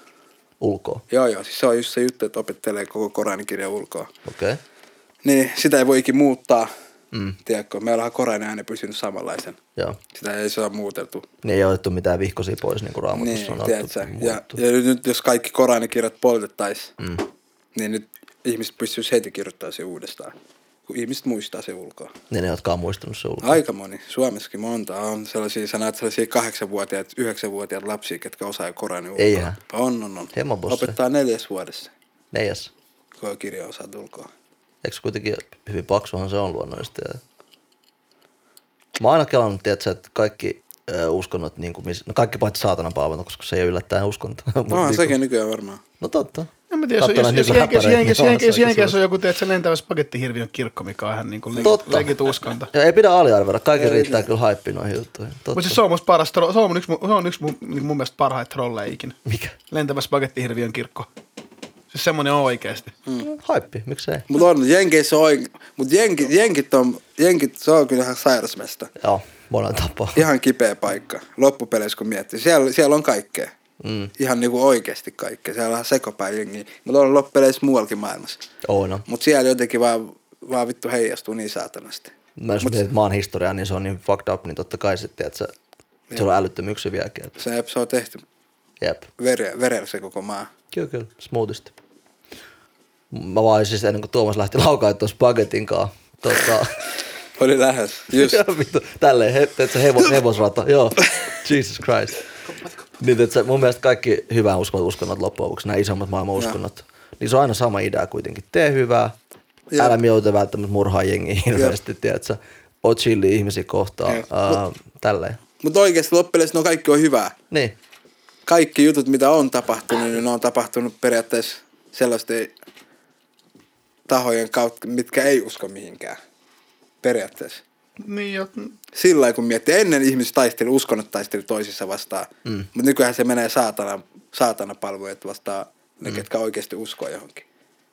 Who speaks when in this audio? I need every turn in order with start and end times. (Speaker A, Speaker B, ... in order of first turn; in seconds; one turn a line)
Speaker A: 0.6-1.0
Speaker B: 1.1-4.1
Speaker A: 4.2-4.6
Speaker B: 5.2-6.7
Speaker B: 7.5-9.6
Speaker B: 10.1-11.2
Speaker A: 11.4-14.6
Speaker B: 13.1-16.9
Speaker B: 17.7-20.3
Speaker B: 20.9-22.1
Speaker A: 22.3-23.6
Speaker B: 23.4-31.9
Speaker A: 29.1-29.6
Speaker A: 30.3-30.9
Speaker A: 32.3-32.7
Speaker B: 33.2-34.3
Speaker A: 34.8-37.2
Speaker A: 39.0-45.1
Speaker B: 44.7-45.8
Speaker A: 46.0-49.0
Speaker C: 46.7-52.7
Speaker A: 51.6-52.1
Speaker A: 52.7-55.8
Speaker B: 53.8-54.2
Speaker C: 55.5-59.1
Speaker A: 59.2-59.5
Speaker C: 59.7-61.1
Speaker C: 61.9-62.9
Speaker A: 63.3-64.3
Speaker B: 64.3-68.9
Speaker A: 69.0-70.2
Speaker B: 70.1-73.5
Speaker A: 73.8-74.1
Speaker B: 74.2-78.4
Speaker A: 78.6-79.0
Speaker B: 79.1-82.8
Speaker A: 82.4-85.5
Speaker A: 86.1-87.3
Speaker B: 87.4-88.2
Speaker A: 88.8-89.1
Speaker B: 89.2-90.5
Speaker A: 90.7-91.7
Speaker A: 93.1-96.8
Speaker B: 97.4-98.4
Speaker A: 98.1-102.2
Speaker A: 103.0-109.1
Speaker B: 109.7-110.0
Speaker A: 109.8-115.4
Speaker B: 114.1-114.6
Speaker B: 115.6-117.3
Speaker A: 117.5-117.8
Speaker B: 118.5-122.5
Speaker B: 124.1-126.2
Speaker B: 127.0-127.6
Speaker C: 128.0-128.7
Speaker B: 128.9-137.4